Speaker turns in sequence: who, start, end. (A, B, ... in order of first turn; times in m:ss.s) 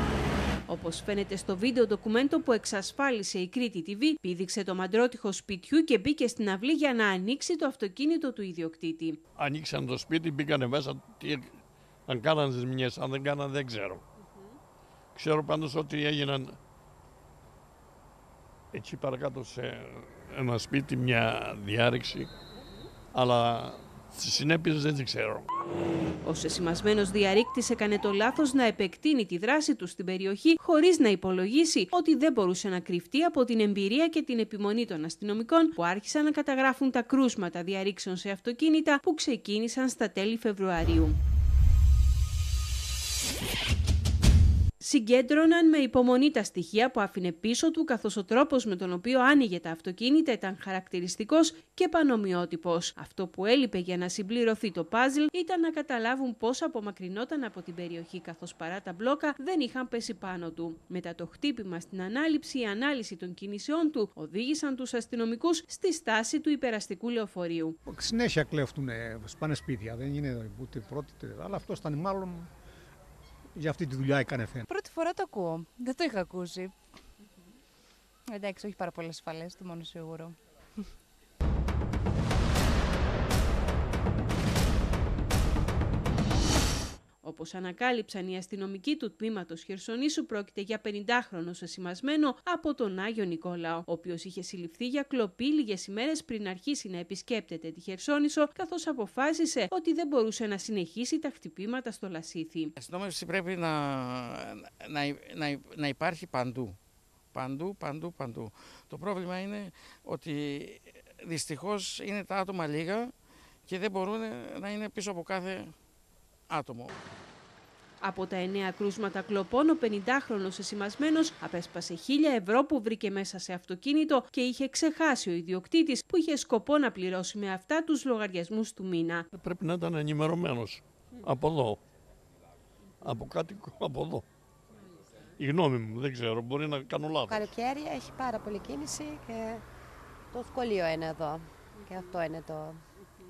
0:00.7-0:09.2 A
0:09.4-0:11.5 B
0:12.1-0:14.0 B
0:15.1-0:16.6 B
0:18.7-0:22.3 B
0:23.1-0:25.4 B
0:26.2-0:41.2 A
0:44.8-1:07.8 A
1:07.8-1:12.5 C
1:13.6-1:14.7 C
1:14.7-1:16.7 D
1:18.3-1:20.4 D
1:27.2-1:42.7 A
1:42.8-1:46.8 E
1:47.3-1:53.1 E
1:53.7-1:55.7 E
1:56.5-1:56.9 E
1:58.0-2:09.3 A
2:09.3-2:11.8 B
2:13.0-2:14.2 B
2:15.4-2:17.5 B
2:17.3-2:19.6 F
2:20.3-2:22.8 F